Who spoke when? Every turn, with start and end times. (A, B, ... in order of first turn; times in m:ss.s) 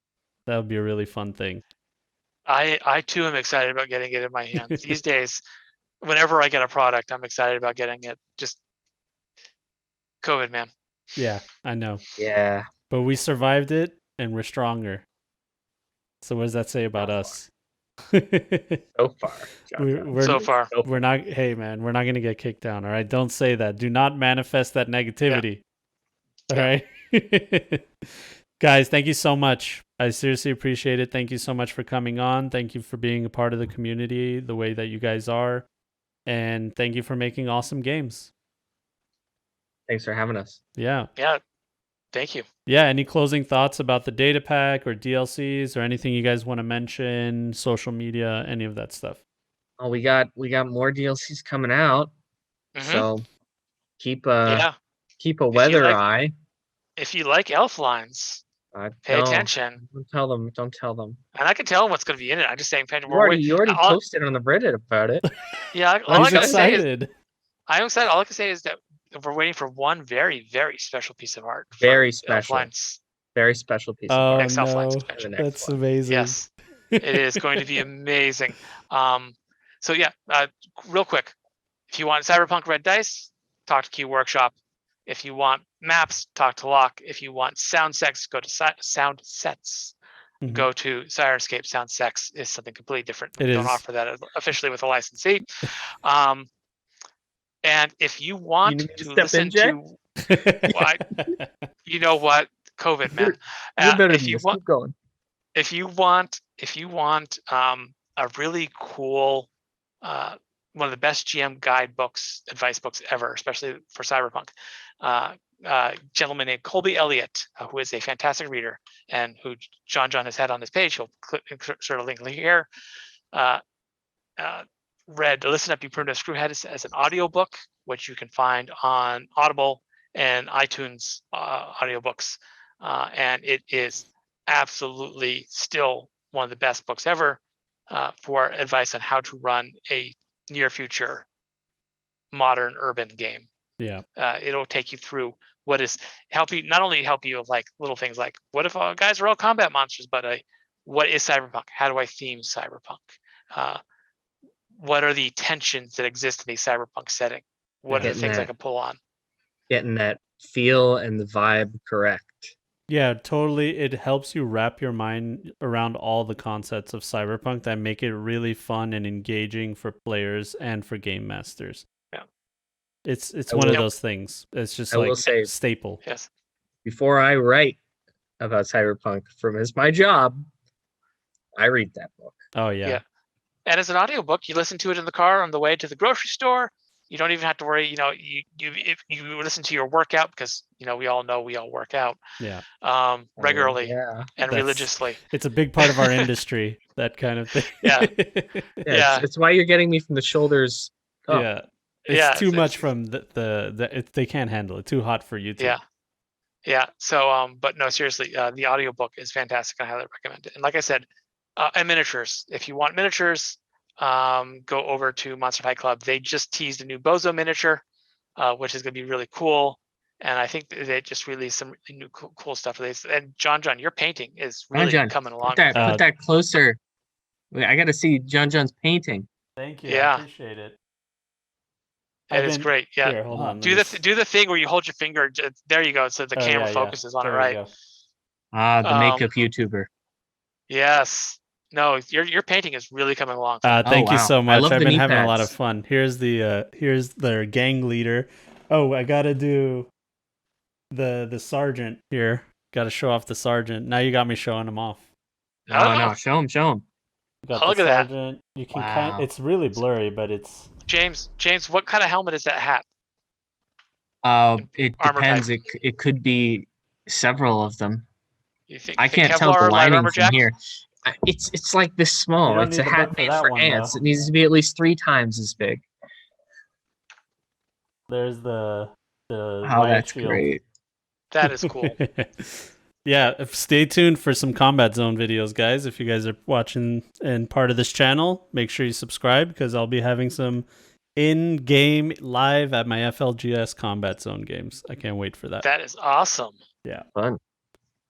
0:00.4-0:01.6 A
0:02.5-0:05.4 B
0:04.6-0:04.8 A
0:06.0-0:08.6 B
0:10.2-0:10.7 B
0:11.2-0:12.0 A
0:12.2-0:12.6 C
0:12.9-0:15.0 A
0:16.2-0:17.5 A
0:17.0-0:17.3 C
0:18.1-0:18.8 A
0:19.0-0:20.9 C
0:19.8-0:25.6 A
0:20.2-0:20.7 B
0:26.5-0:27.8 A
0:28.6-0:35.6 A
0:36.2-0:38.3 A
0:39.9-0:40.6 C
0:40.8-0:41.1 A
0:41.2-0:41.4 B
0:42.1-0:42.4 B
0:42.6-0:49.2 A
0:49.8-0:52.1 C
0:52.7-0:53.1 B
0:52.8-0:53.2 C
0:54.0-0:54.7 C
0:54.4-0:54.7 B
0:55.2-0:56.3 C
0:55.5-0:56.0 B
0:57.0-0:58.4 B
0:58.7-1:01.2 C
0:59.0-0:59.8 B
1:01.3-1:04.0 B
1:03.1-1:05.2 C
1:05.7-1:06.8 B
1:06.1-1:06.7 C
1:06.1-1:07.1 A
1:07.7-1:13.0 B
1:11.8-1:12.7 C
1:13.3-1:14.5 C
1:14.1-1:16.4 A
1:14.3-1:15.3 B
1:15.2-1:15.8 C
1:16.1-1:16.5 B
1:16.9-1:17.6 A
1:17.0-1:21.3 B
1:21.9-1:24.5 B
1:25.0-1:29.9 B
1:30.4-1:30.7 A
1:30.5-1:35.5 B
1:33.4-1:33.8 A
1:36.0-1:36.5 B
1:37.6-1:40.0 B
1:38.6-1:39.8 C
1:40.2-1:41.5 A
1:40.7-1:41.0 B
1:41.8-1:44.6 B
1:43.1-1:44.9 C
1:45.5-1:49.5 B
1:50.0-2:02.7 B
2:03.3-2:03.6 B
2:04.4-2:17.4 B
2:17.9-2:21.3 B
2:22.3-2:23.5 B
2:23.8-2:24.0 A
2:24.2-2:33.8 B
2:34.8-2:39.0 B
2:37.9-2:38.4 A
2:38.0-2:38.5 C
2:39.7-2:42.5 C
2:42.9-2:51.8 A
2:53.0-2:56.0 A
2:53.5-2:53.8 C
2:54.9-2:55.5 C
2:56.0-2:56.3 B
2:56.8-2:57.8 C
2:58.4-3:00.4 C
3:01.6-3:02.4 C
3:02.5-3:03.0 A
3:03.6-3:12.2 B
3:12.4-3:12.6 A
3:12.8-3:15.2 B
3:13.4-3:14.3 C
3:14.5-3:18.6 A
3:15.8-3:16.3 B
3:17.8-3:18.1 B
3:18.8-3:21.5 C
3:18.9-3:19.2 B
3:21.3-3:25.8 A
3:22.0-3:22.9 B
3:26.6-3:31.0 B
3:31.6-3:37.8 B
3:38.4-3:45.9 B
3:44.7-3:46.8 C
3:45.7-3:46.0 A
3:47.5-3:49.3 C
3:49.6-3:50.8 A
3:49.8-3:50.2 B
3:52.3-3:57.6 B
3:52.3-3:54.0 A
3:56.3-3:57.7 A
3:58.5-3:59.9 C
3:58.8-3:59.3 B
4:00.7-4:03.8 B
4:03.6-4:09.9 A
4:03.8-4:05.5 C
4:10.9-4:15.0 A
4:15.7-4:16.2 B
4:15.7-4:16.8 C
4:17.4-4:20.7 A
4:17.5-4:18.1 B
4:18.7-4:19.3 C
4:20.9-4:22.8 B
4:24.2-4:28.0 C
4:24.6-4:25.5 B
4:28.7-4:30.4 B
4:29.0-4:35.8 C
4:32.4-4:34.0 A
4:38.1-4:40.4 A
4:39.6-4:40.6 C
4:41.3-4:42.0 B
4:41.4-4:55.6 A
4:55.6-4:56.6 B